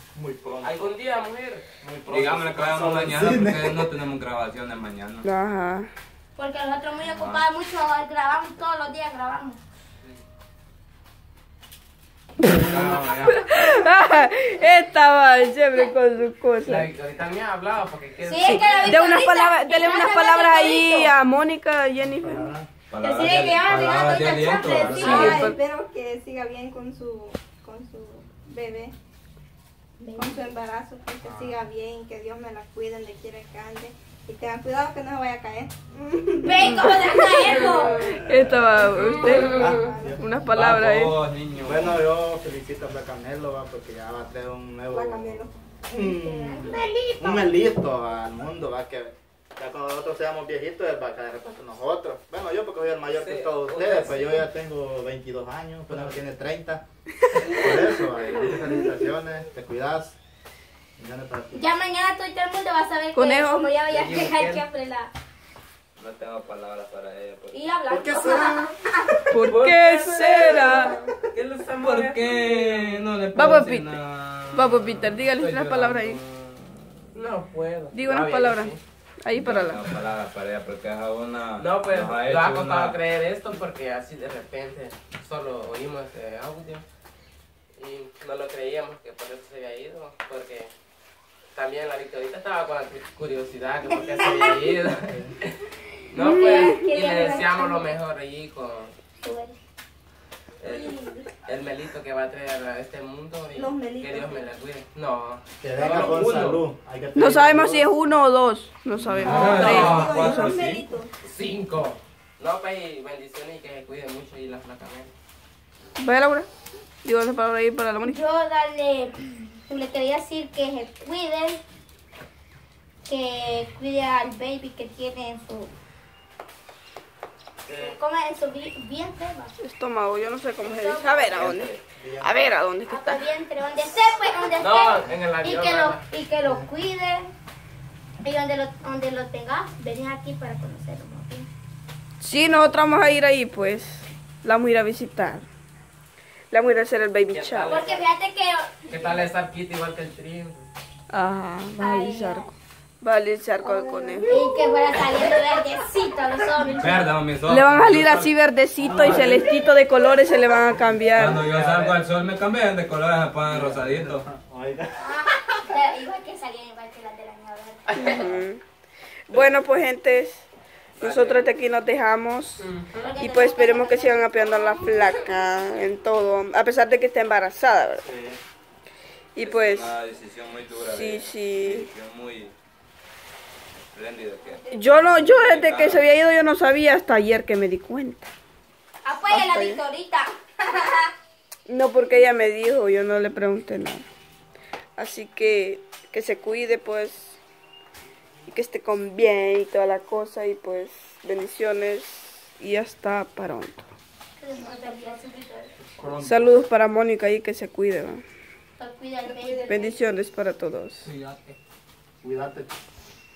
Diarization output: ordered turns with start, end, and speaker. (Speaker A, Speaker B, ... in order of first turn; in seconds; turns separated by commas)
Speaker A: 0.1-0.9, Speaker B: 0.6-1.7, Speaker A: 1.8-3.9, Speaker C: 2.1-5.3, Speaker D: 5.2-5.9, Speaker E: 6.4-9.6, Speaker C: 7.0-7.5, Speaker B: 12.6-13.4, Speaker C: 12.8-13.1, Speaker D: 13.3-16.9, Speaker B: 16.6-19.0, Speaker E: 18.2-21.1, Speaker D: 18.4-22.5, Speaker A: 22.0-22.7, Speaker C: 22.9-25.4, Speaker E: 23.0-25.5, Speaker F: 24.9-28.9, Speaker D: 25.0-25.6, Speaker E: 30.0-30.5, Speaker F: 30.2-37.1, Speaker A: 31.2-31.6, Speaker E: 36.4-38.0, Speaker D: 36.6-41.2, Speaker A: 38.9-40.3, Speaker F: 39.8-40.1, Speaker C: 40.5-42.1, Speaker A: 41.5-56.8, Speaker F: 44.9-46.5, Speaker E: 46.5-47.5, Speaker B: 53.1-54.5, Speaker B: 55.9-56.2, Speaker A: 57.5-60.2, Speaker A: 61.0-61.7, Speaker E: 61.5-65.1, Speaker D: 63.1-63.8, Speaker B: 63.9-64.7, Speaker C: 66.0-67.6, Speaker E: 67.5-68.8, Speaker A: 67.9-68.8, Speaker D: 69.2-71.0, Speaker B: 69.5-73.0, Speaker C: 71.7-75.2, Speaker D: 73.3-74.0, Speaker D: 74.5-76.2, Speaker B: 75.4-76.2, Speaker C: 76.3-76.9, Speaker B: 77.1-78.8, Speaker D: 77.9-79.9, Speaker C: 79.3-83.0, Speaker B: 81.6-86.8, Speaker B: 87.8-90.7, Speaker B: 91.5-95.2, Speaker A: 95.0-95.3, Speaker B: 96.1-98.9, Speaker E: 96.2-97.8, Speaker E: 99.2-99.5, Speaker B: 100.6-106.7, Speaker F: 103.6-104.4, Speaker A: 105.6-107.9, Speaker D: 107.2-110.3, Speaker C: 109.2-110.9, Speaker B: 109.2-110.3, Speaker F: 110.0-111.1, Speaker B: 111.2-115.1, Speaker D: 116.0-116.5, Speaker D: 117.0-118.2, Speaker E: 118.0-121.6, Speaker E: 123.1-125.7, Speaker B: 127.7-128.0, Speaker E: 127.7-129.5, Speaker D: 129.6-133.3, Speaker E: 130.6-131.7, Speaker C: 131.3-131.8, Speaker A: 131.9-132.5, Speaker E: 132.9-137.3, Speaker B: 134.6-136.0, Speaker E: 138.2-141.5, Speaker D: 142.2-145.5, Speaker D: 146.5-147.8, Speaker B: 147.3-148.1, Speaker E: 147.7-149.3, Speaker B: 148.9-150.7, Speaker D: 151.1-152.5, Speaker E: 151.8-152.5, Speaker D: 153.0-154.4, Speaker E: 154.2-157.1, Speaker C: 156.8-158.3, Speaker D: 157.5-161.4, Speaker A: 158.8-159.5, Speaker C: 161.1-164.2, Speaker A: 161.1-162.0, Speaker A: 163.5-165.0, Speaker E: 165.0-168.3, Speaker D: 167.9-168.6, Speaker A: 168.0-168.4, Speaker D: 169.3-170.5, Speaker B: 171.0-171.5, Speaker D: 171.0-178.0, Speaker B: 172.6-173.1, Speaker E: 173.0-175.0, Speaker A: 178.0-178.4, Speaker D: 179.3-179.9, Speaker C: 179.4-182.5, Speaker D: 180.7-181.9, Speaker C: 183.8-186.1, Speaker D: 184.7-188.3, Speaker E: 189.0-191.1, Speaker D: 189.3-189.8, Speaker D: 191.7-194.1, Speaker D: 195.0-197.4, Speaker D: 198.5-203.9, Speaker E: 204.4-205.7, Speaker A: 205.9-206.6, Speaker D: 206.2-208.2, Speaker E: 208.8-210.0, Speaker D: 209.7-211.1, Speaker B: 211.0-211.6, Speaker A: 212.2-212.7